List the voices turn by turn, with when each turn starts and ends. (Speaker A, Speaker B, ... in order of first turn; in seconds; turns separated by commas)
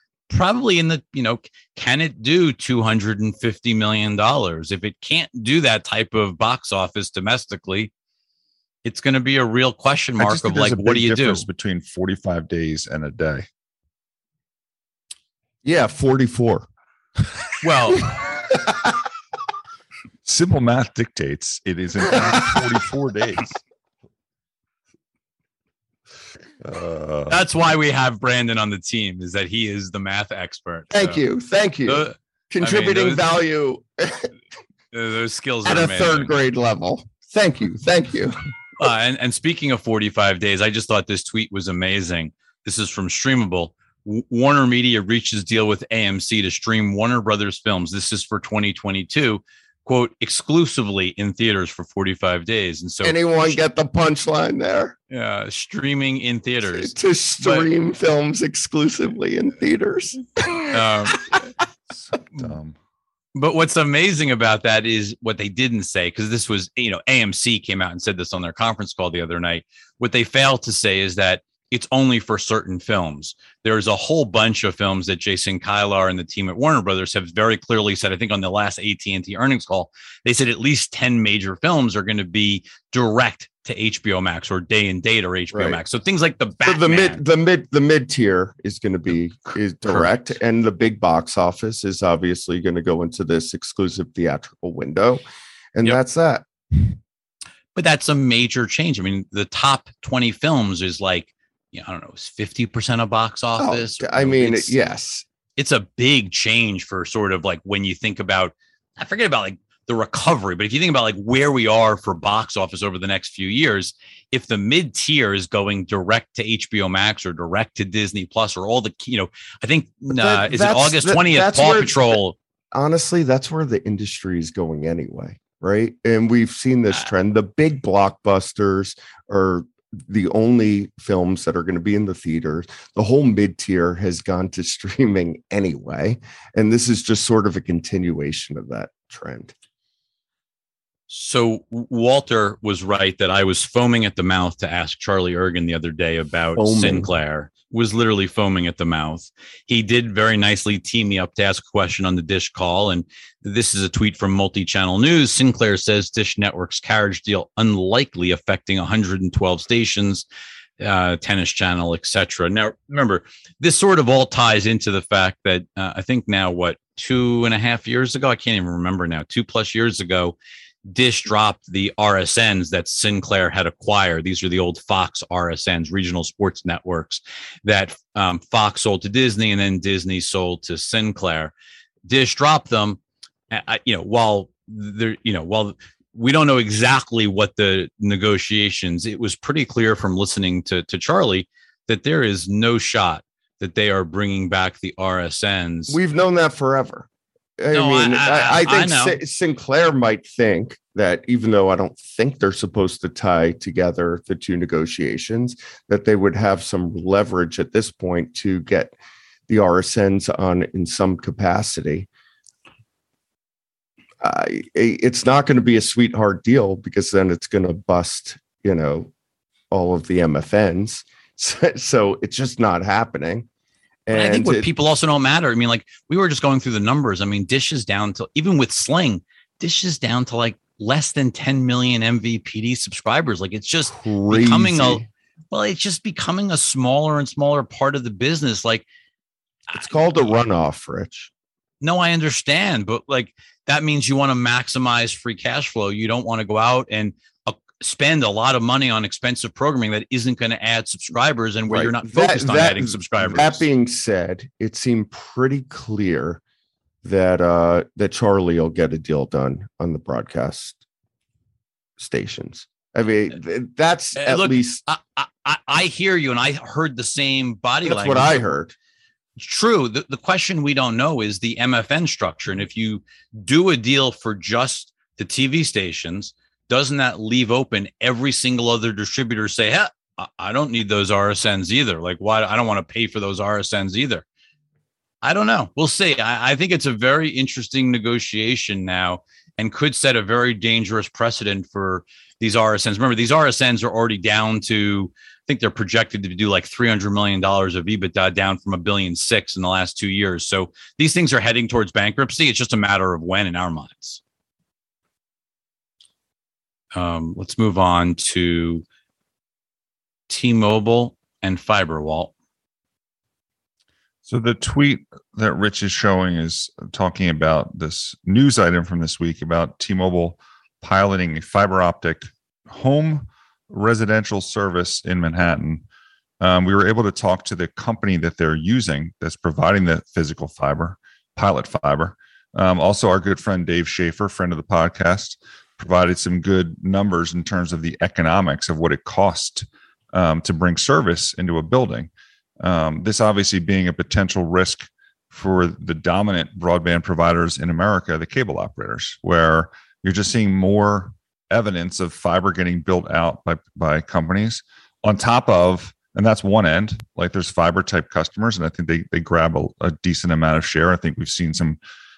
Speaker A: 0.3-7.9, Speaker A: 8.8-11.5, Speaker B: 10.2-13.5, Speaker C: 15.6-16.7, Speaker A: 17.6-18.1, Speaker C: 18.1-18.9, Speaker B: 20.2-23.6, Speaker C: 22.2-22.6, Speaker B: 26.6-27.4, Speaker A: 27.3-31.2, Speaker C: 30.9-34.3, Speaker A: 31.9-33.2, Speaker A: 34.9-36.3, Speaker C: 35.6-38.4, Speaker A: 38.8-53.6, Speaker C: 53.0-55.0, Speaker A: 55.1-57.7, Speaker C: 56.7-61.5, Speaker A: 60.7-61.2, Speaker B: 62.0-62.8, Speaker A: 63.4-87.2, Speaker C: 85.5-85.8, Speaker C: 86.6-96.5, Speaker A: 97.8-104.7, Speaker C: 103.6-105.2, Speaker A: 105.6-122.3, Speaker C: 120.1-122.2, Speaker C: 122.7-139.5, Speaker A: 141.1-160.3, Speaker C: 146.6-147.1, Speaker A: 160.8-170.4, Speaker A: 170.9-181.5, Speaker A: 182.1-183.0, Speaker A: 183.5-196.0, Speaker C: 195.9-197.1, Speaker C: 197.6-208.9, Speaker A: 197.7-199.2, Speaker C: 209.5-212.1, Speaker C: 214.2-219.1, Speaker C: 219.7-223.5, Speaker C: 224.1-224.7, Speaker A: 224.1-238.8, Speaker C: 233.9-235.1, Speaker C: 239.7-241.3, Speaker A: 241.8-253.7, Speaker C: 251.7-256.4, Speaker C: 257.0-260.8, Speaker C: 262.0-264.8, Speaker A: 264.2-268.4, Speaker C: 267.9-268.7, Speaker A: 269.4-284.2, Speaker A: 285.2-304.2, Speaker A: 306.9-308.8, Speaker A: 310.3-312.3, Speaker B: 314.3-325.9, Speaker B: 326.4-342.1, Speaker B: 342.6-361.8